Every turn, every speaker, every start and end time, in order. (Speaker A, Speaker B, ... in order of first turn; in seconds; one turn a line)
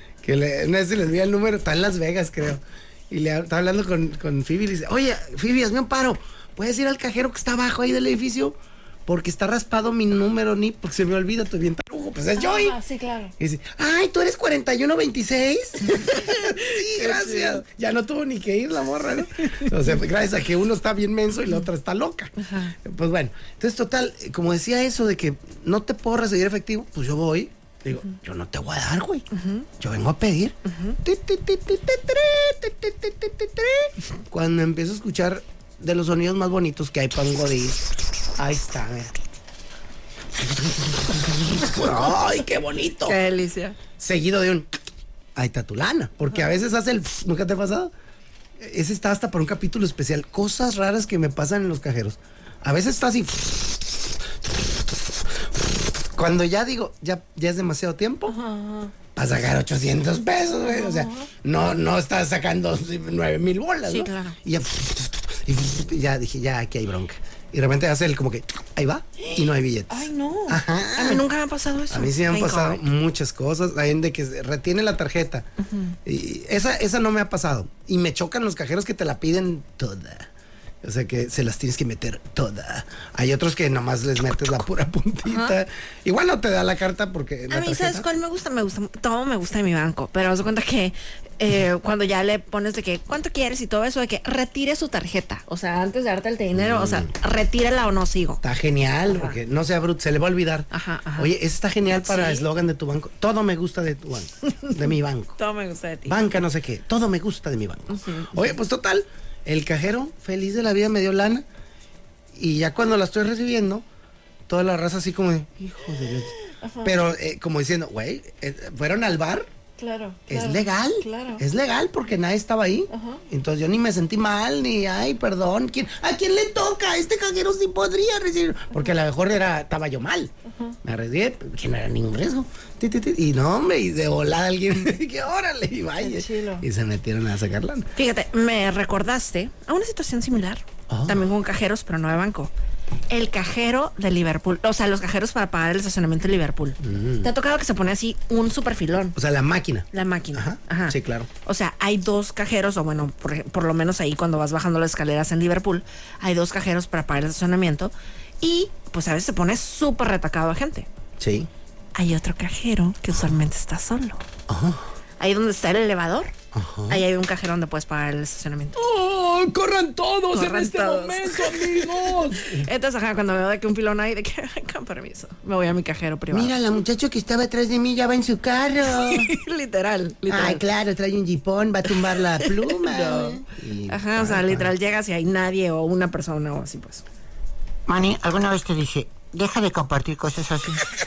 Speaker A: 0.2-12.8
Speaker B: 12.4-13.3
Speaker A: 13.4-29.3
Speaker B: 16.1-17.6
Speaker B: 19.4-19.7
Speaker B: 22.4-22.8
Speaker B: 29.3-29.7
Speaker A: 29.8-39.1
Speaker B: 30.7-31.0
Speaker A: 40.3-43.2
Speaker B: 43.1-43.8
Speaker A: 44.0-44.7
Speaker A: 45.4-47.9
Speaker A: 48.6-58.4
Speaker B: 58.3-58.9
Speaker A: 59.1-71.3
Speaker B: 60.6-61.3
Speaker B: 63.9-64.4
Speaker B: 69.2-72.9
Speaker A: 71.9-75.5
Speaker B: 75.6-76.0
Speaker A: 76.0-80.3
Speaker A: 80.8-88.1
Speaker B: 85.2-85.5
Speaker B: 87.5-98.4
Speaker A: 96.5-97.1
Speaker A: 98.4-105.4
Speaker B: 99.1-99.4
Speaker B: 100.7-101.3
Speaker B: 101.9-102.5
Speaker B: 105.4-106.3
Speaker A: 106.1-111.5
Speaker B: 107.9-108.5
Speaker A: 112.3-113.9
Speaker A: 114.5-119.5
Speaker B: 116.6-116.9
Speaker B: 119.8-121.4
Speaker A: 120.3-137.9
Speaker B: 122.9-123.2
Speaker B: 130.5-130.8
Speaker B: 136.0-136.7
Speaker B: 138.0-142.5
Speaker A: 140.9-141.3
Speaker B: 143.1-149.2
Speaker A: 146.8-147.3
Speaker A: 149.2-151.3
Speaker B: 149.9-160.9
Speaker A: 161.2-161.5
Speaker B: 161.9-164.2
Speaker A: 164.5-164.9
Speaker B: 165.2-166.3
Speaker A: 166.5-167.1
Speaker B: 166.9-168.8
Speaker A: 168.8-172.7
Speaker B: 170.3-176.6
Speaker A: 176.3-179.3
Speaker B: 178.9-180.6
Speaker A: 180.3-184.7
Speaker B: 182.4-187.1
Speaker C: 187.9-190.8